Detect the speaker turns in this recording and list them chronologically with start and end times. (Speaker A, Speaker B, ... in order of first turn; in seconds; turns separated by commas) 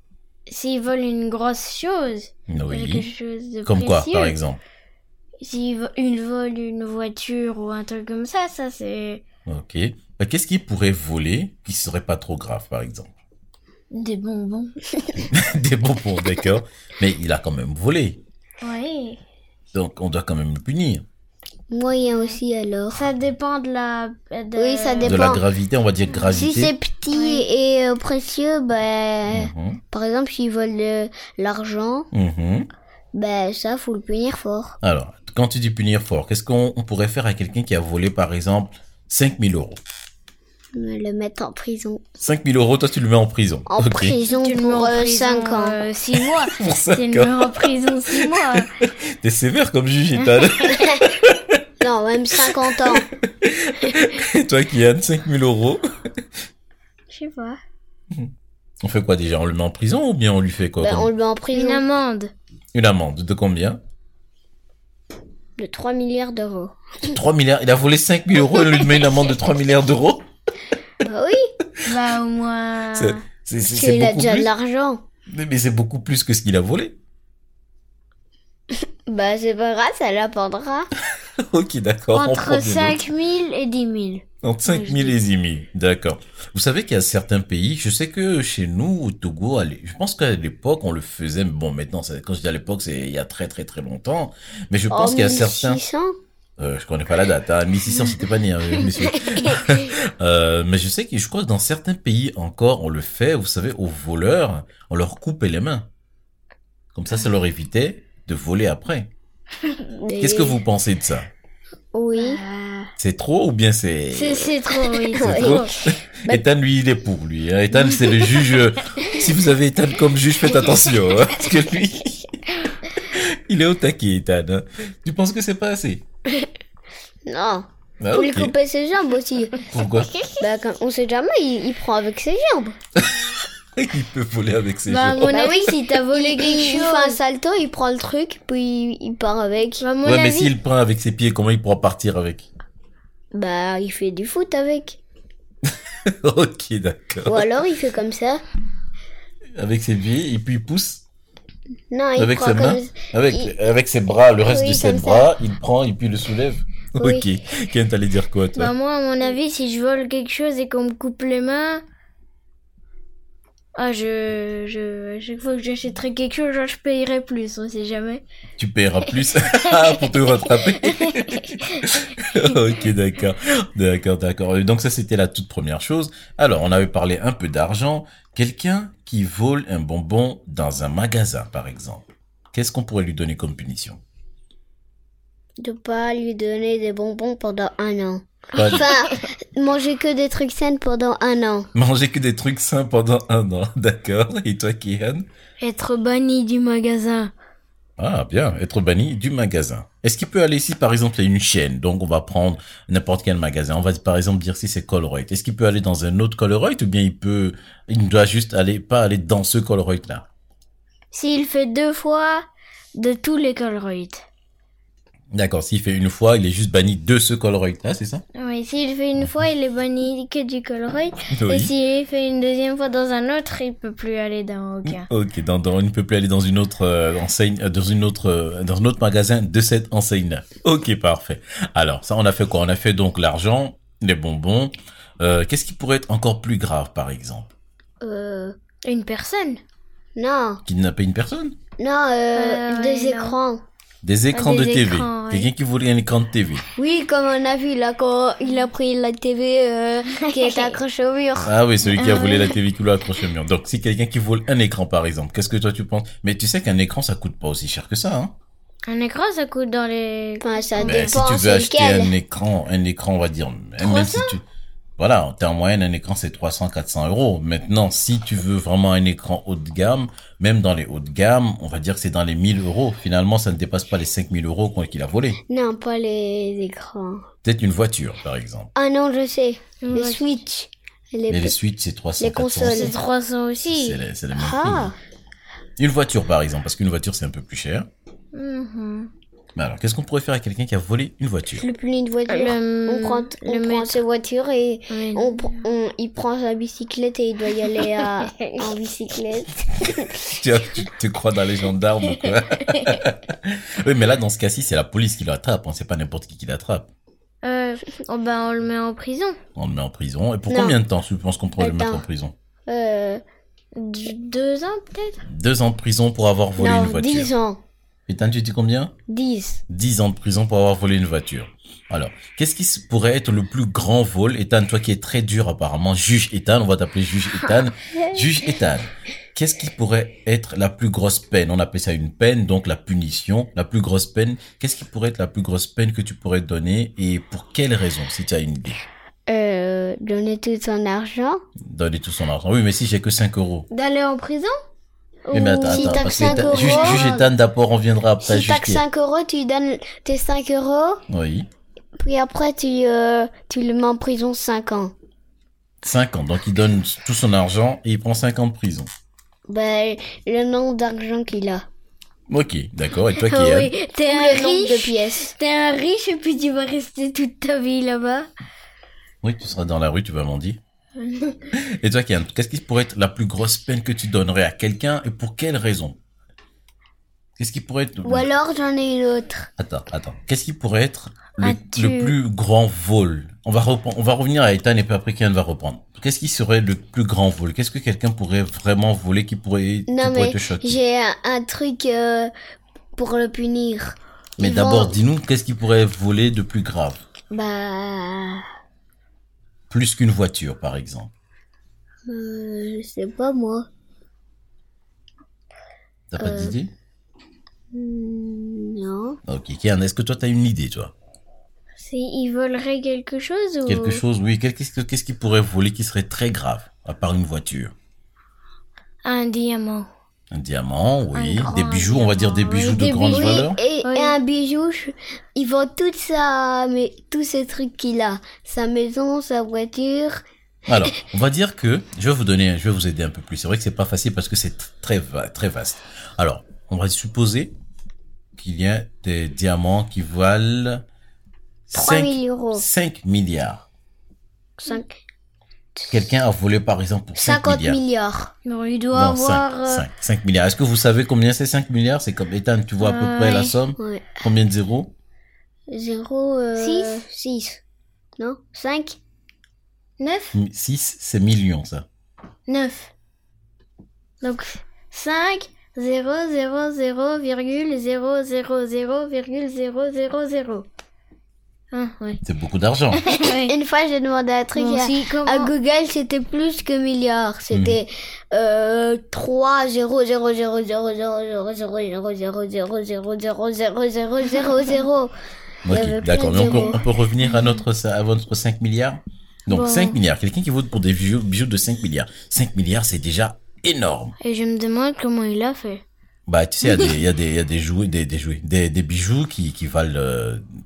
Speaker A: 0.5-4.3, Speaker B: 2.5-3.1, Speaker B: 3.6-4.6, Speaker A: 5.4-9.2, Speaker B: 9.4-13.1, Speaker A: 13.9-14.7, Speaker B: 15.3-18.2, Speaker A: 18.6-19.2, Speaker B: 19.7-21.0, Speaker C: 21.7-23.1, Speaker A: 22.1-22.4, Speaker A: 22.9-25.2, Speaker C: 24.5-25.4, Speaker B: 25.0-26.7, Speaker A: 26.1-26.4, Speaker C: 26.3-32.1, Speaker A: 27.1-27.4, Speaker B: 29.3-29.8, Speaker B: 32.1-32.7, Speaker C: 33.1-34.8, Speaker B: 34.8-39.8, Speaker C: 40.7-42.0, Speaker B: 42.2-44.2, Speaker C: 43.7-45.8, Speaker A: 44.3-48.7, Speaker B: 46.1-51.6, Speaker A: 50.2-50.8, Speaker C: 51.8-53.1, Speaker B: 52.4-56.2, Speaker A: 57.1-57.6, Speaker B: 58.1-61.1, Speaker C: 60.8-61.8, Speaker A: 61.5-62.3, Speaker B: 62.7-63.8, Speaker C: 65.6-67.1, Speaker B: 67.0-70.2, Speaker C: 71.0-71.5, Speaker A: 71.8-73.2, Speaker B: 72.9-74.5, Speaker C: 73.6-75.0, Speaker B: 75.3-77.0, Speaker C: 79.1-80.9, Speaker B: 81.1-83.0, Speaker A: 82.1-85.2, Speaker B: 84.4-95.8, Speaker C: 94.9-96.2, Speaker B: 96.6-105.9, Speaker C: 99.1-99.8, Speaker B: 106.9-109.1, Speaker C: 109.9-110.6, Speaker B: 110.1-111.3, Speaker C: 111.9-112.4, Speaker A: 112.1-112.9, Speaker B: 113.0-114.5, Speaker A: 114.1-115.7, Speaker C: 115.0-116.4, Speaker B: 115.1-122.4, Speaker A: 117.9-119.1, Speaker B: 123.0-126.0, Speaker C: 127.2-129.6, Speaker B: 128.0-128.5, Speaker B: 129.7-130.1, Speaker C: 130.4-132.8, Speaker B: 133.0-135.5, Speaker A: 134.8-137.2, Speaker C: 135.3-139.8, Speaker A: 139.8-140.5, Speaker B: 140.0-142.5, Speaker C: 143.3-145.0, Speaker B: 145.7-147.4, Speaker C: 147.2-148.4, Speaker B: 149.6-151.0, Speaker C: 151.9-153.5, Speaker B: 152.2-158.7, Speaker C: 154.4-155.3, Speaker C: 157.0-157.3, Speaker A: 158.6-161.8, Speaker A: 163.8-168.2, Speaker B: 168.6-184.0, Speaker A: 169.7-171.9, Speaker C: 185.6-191.7, Speaker B: 188.5-188.9, Speaker B: 191.7-195.2, Speaker A: 195.6-197.3, Speaker B: 198.0-210.2, Speaker A: 211.1-214.2, Speaker B: 215.3-218.2, Speaker A: 218.3-225.1, Speaker B: 221.3-221.7, Speaker B: 224.8-237.5, Speaker C: 238.0-238.6, Speaker A: 238.8-239.6, Speaker C: 240.2-240.6, Speaker B: 240.7-241.6, Speaker C: 241.8-243.6, Speaker A: 242.3-243.3, Speaker B: 244.0-246.6, Speaker A: 244.3-245.5, Speaker C: 246.8-251.5, Speaker A: 250.2-250.8, Speaker B: 251.4-258.3, Speaker A: 251.9-252.6, Speaker A: 258.9-261.1, Speaker C: 260.4-262.1, Speaker B: 260.8-264.4, Speaker A: 263.8-264.4, Speaker B: 265.0-275.4, Speaker C: 275.5-277.2, Speaker B: 277.4-278.7, Speaker C: 278.8-281.6, Speaker A: 279.8-280.4, Speaker B: 281.3-283.0, Speaker C: 282.2-282.9, Speaker A: 282.6-284.0, Speaker B: 283.6-284.9, Speaker C: 284.4-284.9, Speaker B: 285.8-287.9, Speaker A: 288.3-289.1, Speaker B: 289.5-291.6, Speaker C: 291.6-300.3, Speaker A: 292.3-294.0, Speaker A: 294.9-295.6, Speaker A: 297.7-298.7, Speaker B: 300.2-306.9, Speaker A: 307.4-309.4, Speaker B: 309.6-312.3, Speaker C: 310.5-310.8, Speaker C: 311.6-312.0, Speaker C: 312.7-313.2, Speaker A: 313.7-315.2, Speaker B: 315.3-317.3, Speaker C: 316.6-317.6, Speaker B: 318.1-318.9, Speaker C: 319.1-319.6, Speaker B: 319.7-338.8, Speaker C: 339.3-341.4, Speaker B: 341.6-343.7, Speaker A: 343.7-344.5, Speaker A: 345.2-347.2, Speaker B: 345.3-348.8, Speaker C: 345.6-347.2, Speaker C: 348.2-351.0, Speaker B: 351.1-351.5, Speaker C: 352.0-354.9, Speaker B: 355.8-358.9, Speaker C: 359.5-361.6, Speaker B: 362.3-363.7, Speaker A: 363.1-368.3, Speaker C: 364.1-365.3, Speaker B: 369.2-370.6, Speaker A: 371.0-371.5, Speaker B: 371.5-376.0, Speaker B: 377.4-378.3, Speaker C: 378.0-379.5, Speaker B: 379.6-390.8, Speaker A: 381.4-382.1, Speaker C: 389.9-392.3, Speaker C: 392.9-395.0, Speaker B: 394.4-397.0, Speaker C: 397.3-398.4, Speaker B: 399.7-401.1, Speaker C: 402.1-403.7, Speaker B: 406.1-406.7, Speaker C: 406.2-406.6, Speaker C: 407.7-409.2, Speaker B: 409.2-410.9, Speaker A: 411.8-414.0, Speaker B: 413.6-417.7, Speaker A: 419.0-419.9, Speaker B: 420.3-423.6, Speaker A: 421.1-424.1, Speaker C: 423.1-430.2, Speaker B: 430.7-437.5, Speaker B: 438.4-440.8, Speaker B: 441.7-443.6, Speaker C: 441.7-442.6, Speaker C: 444.6-445.0, Speaker B: 445.9-447.8, Speaker C: 447.1-448.3, Speaker A: 448.4-449.9, Speaker B: 448.9-454.9, Speaker A: 452.8-453.6, Speaker C: 453.8-454.2, Speaker C: 455.7-457.6, Speaker A: 456.6-457.0, Speaker C: 458.2-459.0, Speaker A: 460.0-460.4, Speaker B: 460.3-461.9, Speaker A: 462.5-462.9, Speaker A: 464.2-470.7, Speaker A: 471.7-472.2, Speaker B: 472.2-473.0, Speaker A: 472.9-473.5, Speaker C: 473.1-485.1, Speaker A: 474.5-475.5, Speaker B: 477.5-477.8, Speaker B: 485.6-494.1, Speaker C: 485.7-486.8, Speaker A: 489.5-490.0, Speaker A: 494.2-495.8, Speaker B: 496.3-500.5